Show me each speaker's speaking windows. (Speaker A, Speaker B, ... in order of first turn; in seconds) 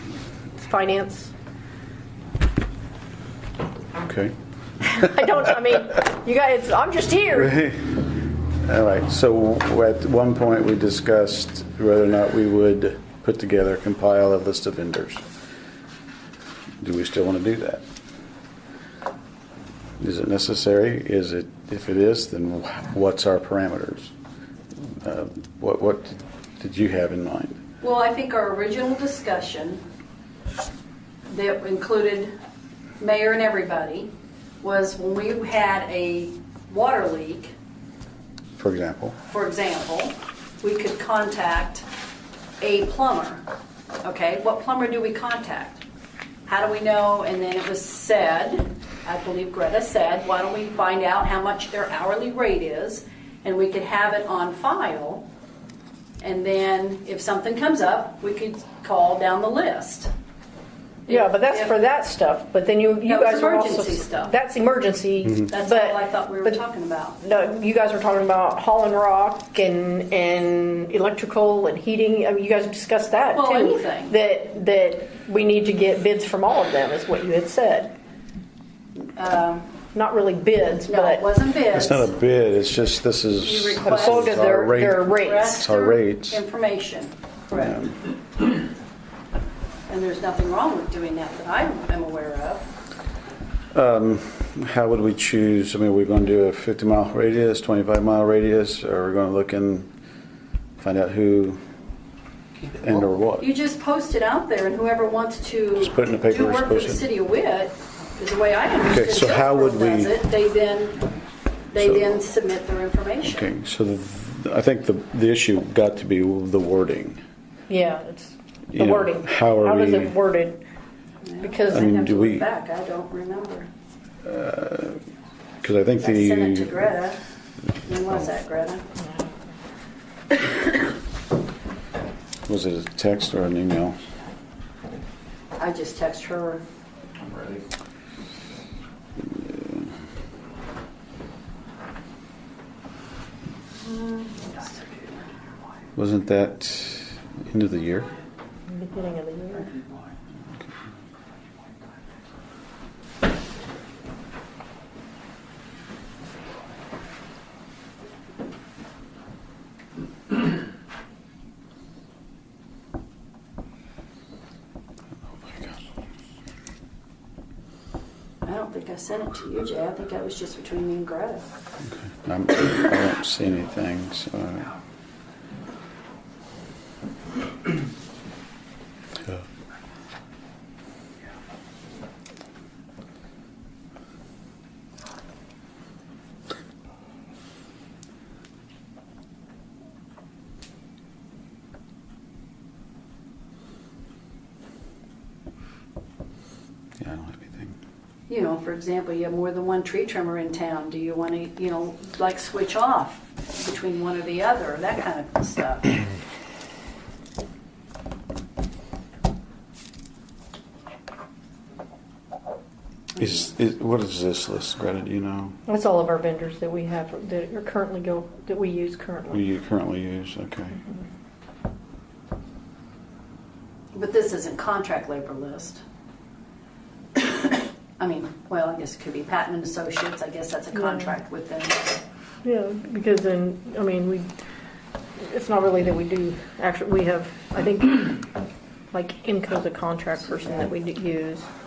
Speaker A: 0.6-1.3, 4.8-7.6, 61.1-66.6, 67.2-78.0, 79.9-81.3, 83.8-85.7, 117.7-120.6, 121.4-121.9, 148.7-149.7, 215.7-219.4, 232.4-234.3, 235.2-238.2, 238.9-241.5
Speaker B: 4.0-4.3, 7.3-8.0, 8.6-15.2, 16.8-17.8, 20.0-24.1, 24.8-27.6, 38.6-39.2, 81.7-86.4, 93.7-99.9, 100.8-101.6, 102.7-103.5, 105.8-107.0, 108.9-110.2, 111.8-112.0, 113.2-117.2, 118.7-120.2, 121.7-122.4, 124.2-125.0, 125.6-126.9, 132.5-134.0, 139.4-139.9, 146.0-148.1, 165.2-165.8, 171.8-174.7, 197.0-197.8, 213.2-215.6, 219.3-220.8
Speaker C: 27.8-29.8, 31.3-32.3, 33.0-34.1, 34.6-37.5, 39.3-41.9, 42.6-43.5, 44.0-45.8, 46.5-55.3, 56.2-60.1, 61.1-61.8, 63.0-64.3, 65.5-67.2, 73.3-74.2, 79.0-79.7, 80.9-82.1, 83.4-84.4, 85.0-87.9, 89.9-92.7, 103.4-111.1, 111.7-113.5, 121.2-123.7, 126.0-127.2, 127.8-128.8, 135.6-136.6, 143.8-145.2, 168.4-171.4, 198.3-206.0, 223.9-225.8, 227.2-232.0